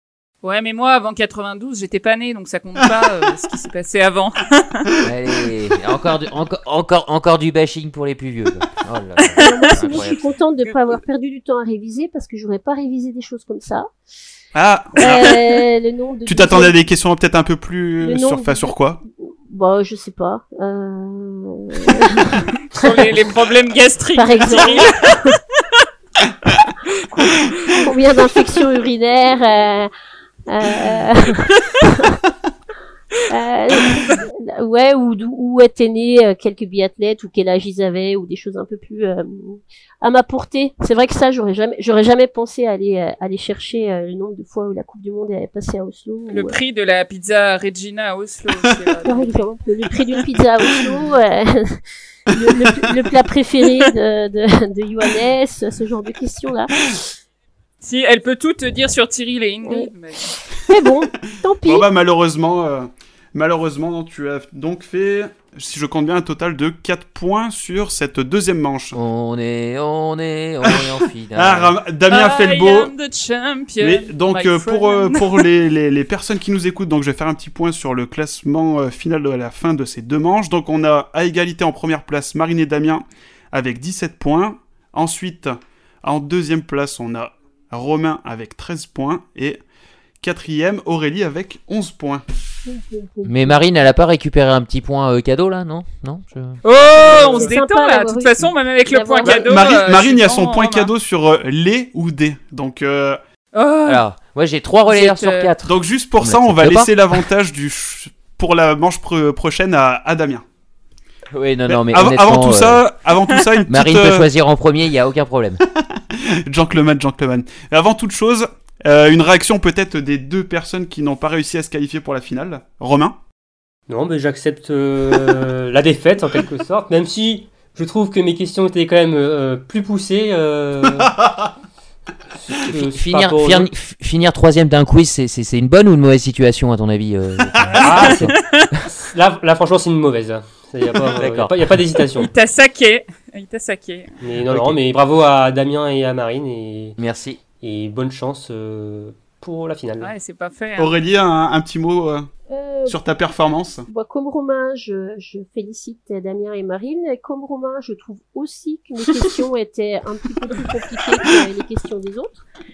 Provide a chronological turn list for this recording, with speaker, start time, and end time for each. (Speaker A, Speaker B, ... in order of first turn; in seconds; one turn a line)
Speaker A: 0.4-4.9
Speaker B: 5.0-10.2
Speaker A: 9.2-10.0
Speaker C: 9.4-13.9
Speaker D: 14.5-15.4
Speaker C: 15.0-16.8
Speaker D: 16.2-19.0
Speaker C: 18.0-22.5
Speaker A: 22.7-25.4
Speaker C: 24.1-25.4
Speaker C: 27.1-29.9
Speaker C: 30.5-32.2
Speaker C: 33.2-46.6
Speaker A: 46.3-49.4
Speaker C: 49.0-57.0
Speaker D: 52.4-52.9
Speaker A: 57.8-60.3
Speaker C: 59.6-61.9
Speaker D: 61.6-69.0
Speaker B: 68.9-71.8
Speaker D: 70.6-72.9
Speaker A: 72.1-75.4
Speaker D: 73.8-89.6
Speaker D: 90.2-92.2
Speaker C: 92.6-93.6
Speaker B: 93.2-96.6
Speaker A: 96.6-100.9
Speaker C: 96.9-99.5
Speaker D: 99.2-103.2
Speaker A: 103.5-104.0
Speaker B: 103.8-106.9
Speaker A: 104.9-105.5
Speaker D: 105.6-110.4
Speaker B: 111.3-112.8
Speaker D: 111.7-114.3
Speaker B: 113.7-115.6
Speaker D: 115.8-123.2
Speaker E: 123.9-131.2
Speaker D: 131.0-131.5
Speaker E: 132.4-133.7
Speaker B: 132.7-138.3
Speaker D: 137.5-137.9
Speaker E: 137.8-138.3
Speaker A: 137.9-138.7
Speaker E: 138.9-142.3
Speaker B: 141.2-141.5
Speaker A: 142.2-144.1
Speaker E: 144.2-147.0
Speaker B: 144.5-144.7
Speaker B: 147.0-147.4
Speaker E: 147.6-150.1
Speaker A: 150.0-150.9
Speaker D: 150.8-152.3
Speaker C: 152.5-153.0
Speaker D: 152.9-153.8
Speaker C: 153.9-162.4